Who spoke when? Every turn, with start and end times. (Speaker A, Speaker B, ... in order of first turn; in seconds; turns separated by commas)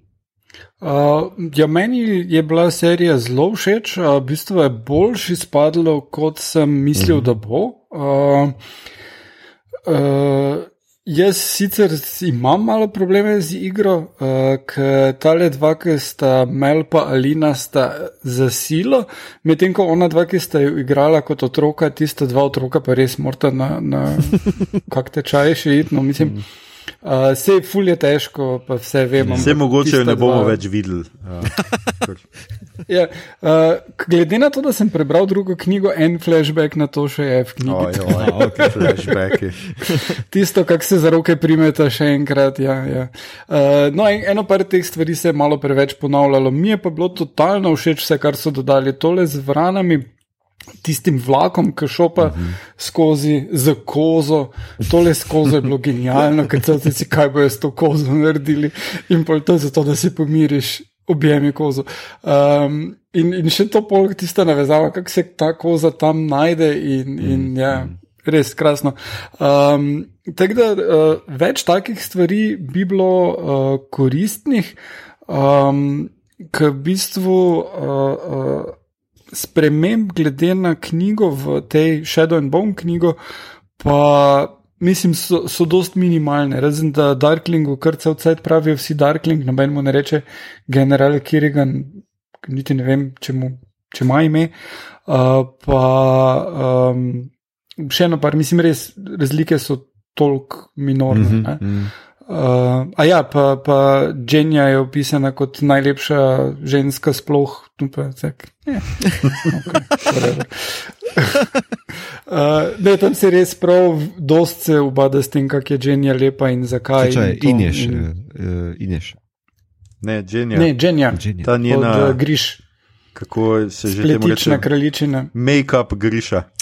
Speaker A: 0.8-8.6, Speaker B: 7.0-7.2, Speaker A: 9.8-26.4, Speaker A: 27.0-30.6, Speaker B: 29.2-29.5, Speaker C: 29.3-32.2, Speaker A: 32.9-39.4, Speaker C: 37.6-39.6, Speaker B: 38.1-39.1, Speaker A: 39.9-50.1, Speaker A: 50.8-74.8, Speaker B: 52.2-52.6, Speaker B: 67.2-67.9, Speaker A: 75.3-78.7, Speaker A: 79.3-83.2, Speaker A: 83.8-94.5, Speaker A: 95.1-101.7, Speaker B: 101.1-101.9, Speaker A: 102.3-111.4, Speaker A: 112.3-118.1, Speaker B: 117.0-119.2, Speaker C: 120.0-120.7, Speaker A: 120.5-122.6, Speaker B: 121.1-121.5, Speaker C: 121.4-122.2, Speaker C: 123.1-124.7, Speaker A: 124.0-125.3, Speaker C: 125.3-126.5